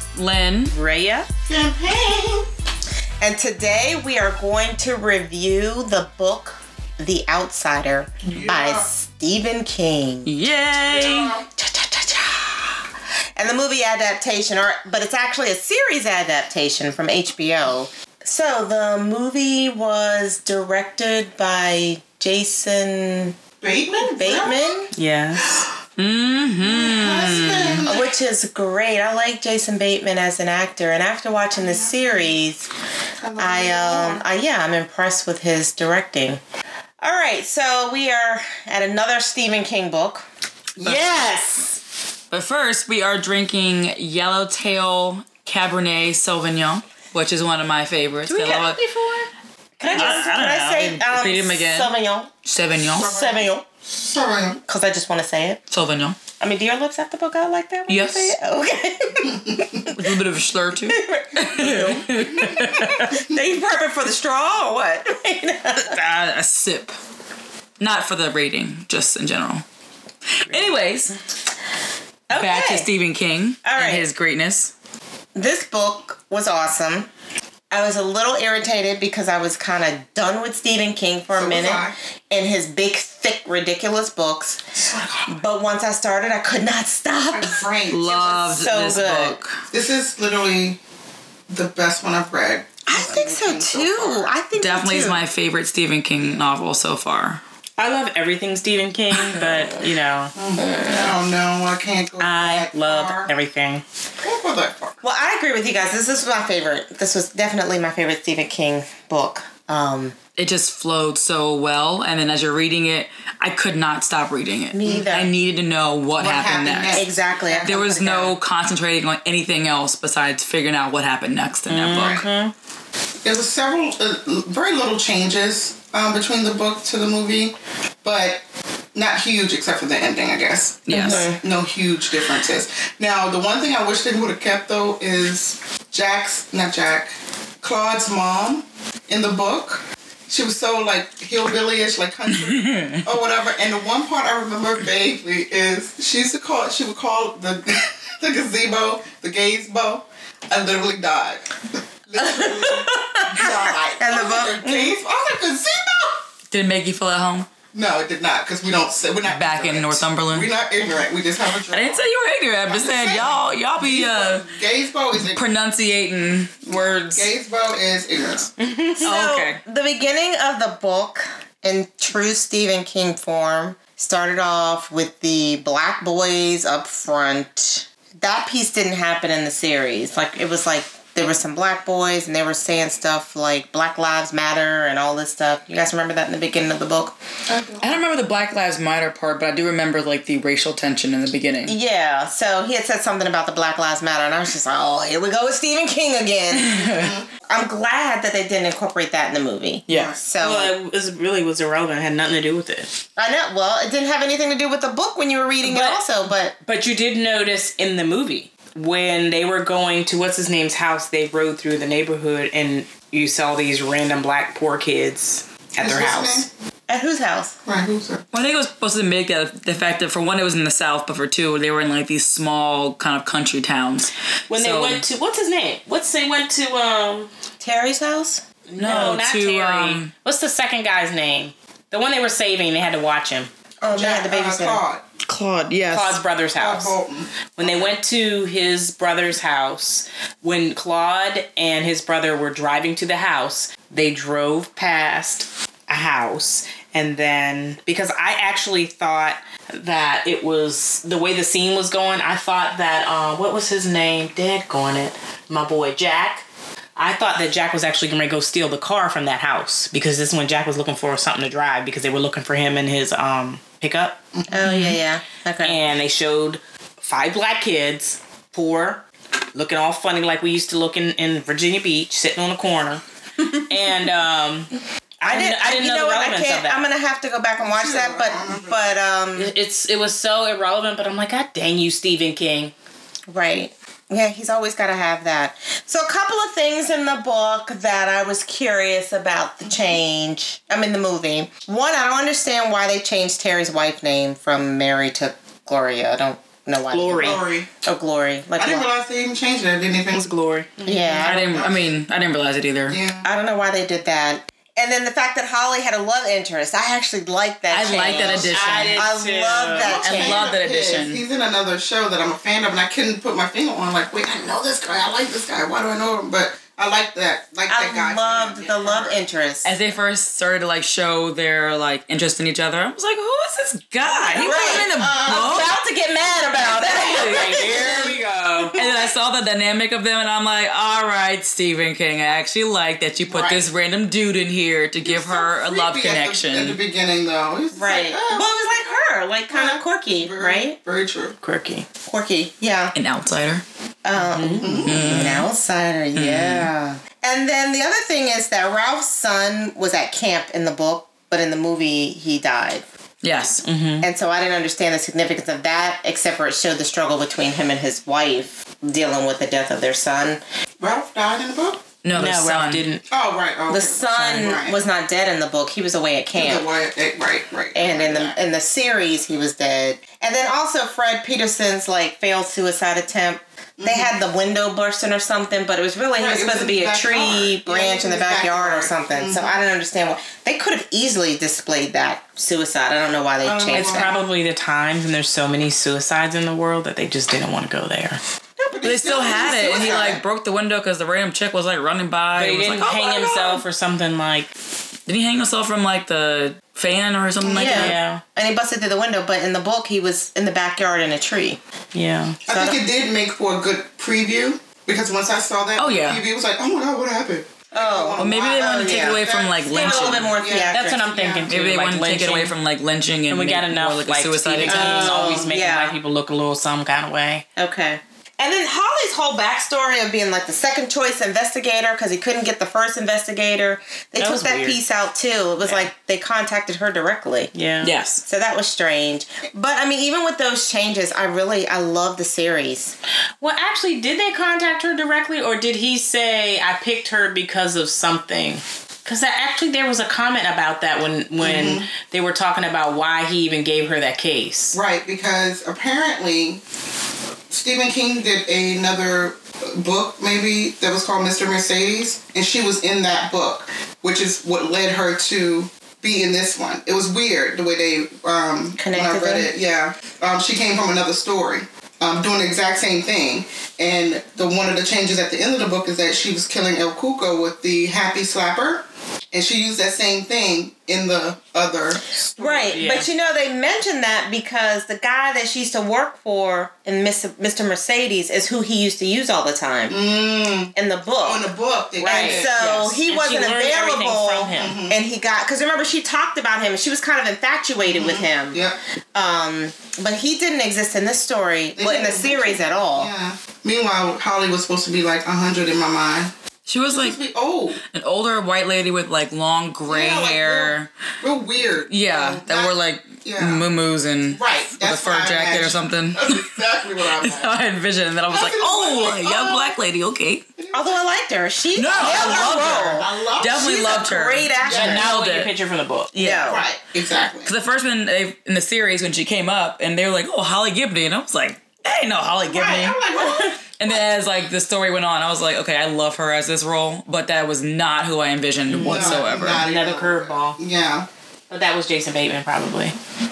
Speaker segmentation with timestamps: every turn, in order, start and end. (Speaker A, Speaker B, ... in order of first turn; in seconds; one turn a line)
Speaker A: 0.1-0.7
Speaker B: 0.7-1.3
Speaker C: 1.5-2.5
Speaker D: 3.2-10.3
Speaker C: 8.3-8.9
Speaker A: 10.2-11.3
Speaker C: 10.8-11.4
Speaker D: 11.6-12.8
Speaker D: 13.4-23.4
Speaker C: 23.6-24.8
Speaker D: 24.0-24.9
Speaker B: 24.9-25.4
Speaker C: 25.4-25.7
Speaker A: 26.0-27.8
Speaker C: 26.6-28.1
Speaker D: 27.9-32.7
Speaker C: 31.5-32.4
Speaker C: 33.2-34.2
Speaker D: 33.4-36.4
Speaker D: 37.0-40.2
Speaker C: 40.8-41.2
Speaker D: 40.8-41.8
Speaker A: 42.3-48.8
Speaker B: 48.2-49.3
Speaker D: 49.8-52.3
Speaker A: 49.9-51.9
Speaker A: 52.4-53.2
Speaker D: 52.9-53.6
Speaker C: 52.9-54.6
Speaker D: 54.7-55.6
Speaker A: 55.7-56.2
Speaker D: 56.4-59.9
Speaker A: 57.9-58.4
Speaker A: 59.9-63.1
Speaker D: 60.9-65.9
Speaker C: 61.5-61.9
Speaker A: 65.8-66.9
Speaker A: 67.8-69.6
Speaker A: 70.5-71.1
Speaker B: 70.5-70.8
Speaker D: 72.3-72.9
Speaker A: 72.3-74.7
Speaker D: 73.6-74.0
Speaker D: 75.3-77.1
Speaker D: 77.7-84.6
Speaker C: 81.3-81.9
Speaker C: 84.7-85.4
Speaker D: 85.3-87.7
Speaker C: 87.3-88.6
Speaker A: 87.9-89.6
Speaker D: 88.5-89.4
Speaker C: 89.7-90.8
Speaker C: 91.5-94.3
Speaker D: 92.8-95.2
Speaker A: 94.6-97.4
Speaker B: 97.8-100.3
Speaker C: 100.3-103.3
Speaker B: 102.2-103.8
Speaker C: 104.2-105.0
Speaker D: 105.0-110.2
Speaker A: 110.4-117.1
Speaker D: 114.7-115.3
Speaker C: 116.2-117.1
Speaker D: 116.9-118.4
Speaker A: 117.6-122.2
Speaker D: 121.7-122.5
Speaker C: 121.9-122.2
Speaker C: 123.2-128.4
Speaker C: 128.9-151.5
Speaker A: 130.8-131.3
Speaker D: 130.9-131.4
Speaker A: 142.3-143.0
Speaker C: 152.1-156.2
Speaker D: 152.2-155.0
Speaker A: 156.5-157.5
Speaker C: 157.7-162.1
Speaker A: 159.2-160.5
Speaker A: 161.7-164.4
Speaker C: 162.6-165.5
Speaker A: 165.1-167.3
Speaker C: 166.7-168.5
Speaker D: 168.6-187.2
Speaker A: 169.0-169.6
Speaker C: 187.5-187.9
Speaker A: 187.8-191.7
Speaker D: 191.7-200.7
Speaker A: 196.5-197.1
Speaker C: 196.9-197.3
Speaker A: 199.9-200.2
Speaker C: 199.9-200.2
Speaker B: 200.4-202.9
Speaker D: 203.2-206.5
Speaker B: 205.6-206.0
Speaker B: 206.6-216.4
Speaker C: 215.8-216.5
Speaker D: 216.9-217.5
Speaker C: 217.7-218.2
Speaker A: 218.3-225.0
Speaker B: 224.5-227.3
Speaker D: 227.6-229.1
Speaker B: 228.7-233.5
Speaker A: 228.8-230.1
Speaker D: 233.8-234.8
Speaker C: 233.9-235.0
Speaker A: 235.2-236.2
Speaker B: 235.9-236.9
Speaker C: 236.6-238.0
Speaker B: 237.6-256.4
Speaker B: 257.0-264.2
Speaker C: 264.3-264.7
Speaker D: 264.5-265.8
Speaker A: 264.6-265.0
Speaker B: 265.6-273.0
Speaker B: 273.7-274.7
Speaker B: 275.2-276.8
Speaker D: 275.2-279.5
Speaker C: 277.6-278.9
Speaker B: 279.3-282.7
Speaker D: 283.3-298.9
Speaker C: 289.6-290.0
Speaker B: 296.9-297.4
Speaker C: 297.2-297.7
Speaker C: 298.6-300.3
Speaker B: 300.1-301.3
Speaker D: 300.8-301.5
Speaker A: 301.2-303.0
Speaker C: 301.2-302.0
Speaker C: 302.9-303.3
Speaker D: 303.2-310.4
Speaker A: 307.7-309.0
Speaker C: 308.0-309.0
Speaker B: 308.3-310.0
Speaker C: 309.8-319.1
Speaker A: 309.9-311.2
Speaker D: 317.7-319.7
Speaker A: 319.6-325.7
Speaker C: 324.3-325.7
Speaker D: 324.4-328.1
Speaker B: 326.8-328.7
Speaker C: 326.8-328.1
Speaker A: 328.8-336.8
Speaker C: 333.3-333.6
Speaker C: 335.0-338.5
Speaker D: 337.7-340.8
Speaker C: 339.5-341.3
Speaker B: 341.4-341.9
Speaker D: 342.1-342.9
Speaker A: 342.9-343.6
Speaker D: 344.0-352.8
Speaker B: 344.1-344.8
Speaker C: 344.6-345.3
Speaker A: 344.8-345.5
Speaker A: 346.1-346.7
Speaker A: 353.2-353.6
Speaker B: 353.6-354.1
Speaker D: 354.0-360.4
Speaker C: 360.8-361.8
Speaker A: 362.0-362.8
Speaker B: 362.1-363.0
Speaker C: 363.1-364.8
Speaker D: 363.7-366.7
Speaker B: 364.1-364.5
Speaker C: 366.3-368.4
Speaker D: 367.7-384.1
Speaker C: 373.8-374.1
Speaker C: 376.1-379.6
Speaker C: 383.4-384.1
Speaker B: 383.7-388.2
Speaker C: 388.6-390.2
Speaker A: 388.8-393.6
Speaker D: 389.6-390.1
Speaker B: 392.3-394.5
Speaker A: 395.1-397.9
Speaker C: 397.4-397.7
Speaker D: 397.4-401.6
Speaker B: 397.6-398.2
Speaker B: 401.9-402.4
Speaker C: 402.4-411.5
Speaker D: 402.5-402.8
Speaker A: 405.8-406.2
Speaker D: 407.7-411.1
Speaker A: 408.2-410.4
Speaker B: 410.7-412.5
Speaker A: 411.5-415.1
Speaker B: 413.3-417.4
Speaker C: 414.6-415.5
Speaker D: 415.5-415.9
Speaker D: 417.6-427.5
Speaker B: 424.2-424.8
Speaker B: 425.6-425.9
Speaker B: 427.5-427.9
Speaker A: 427.8-428.2
Speaker D: 428.2-432.9
Speaker B: 433.4-444.8
Speaker C: 441.4-441.9
Speaker C: 444.7-446.6
Speaker C: 447.5-472.7
Speaker D: 458.8-459.5
Speaker D: 472.4-479.9
Speaker B: 472.7-473.1
Speaker C: 479.9-482.5
Speaker D: 480.7-488.6
Speaker B: 482.0-484.8
Speaker C: 484.5-485.0
Speaker C: 487.8-488.8
Speaker D: 489.1-493.1
Speaker C: 491.7-496.3
Speaker A: 496.6-497.2
Speaker C: 496.9-497.8
Speaker A: 497.8-500.9
Speaker C: 499.9-503.6
Speaker A: 501.9-506.4
Speaker C: 504.3-507.5
Speaker A: 507.2-510.4
Speaker C: 508.3-509.7
Speaker C: 510.6-511.1
Speaker D: 510.7-515.1
Speaker A: 511.7-515.5
Speaker C: 511.9-514.0
Speaker B: 514.6-516.1
Speaker C: 514.7-515.0
Speaker A: 516.1-516.5
Speaker D: 516.1-516.6
Speaker C: 516.5-517.5
Speaker A: 517.4-529.6
Speaker C: 522.5-523.5
Speaker B: 528.7-530.6
Speaker C: 528.8-531.1
Speaker B: 531.5-533.0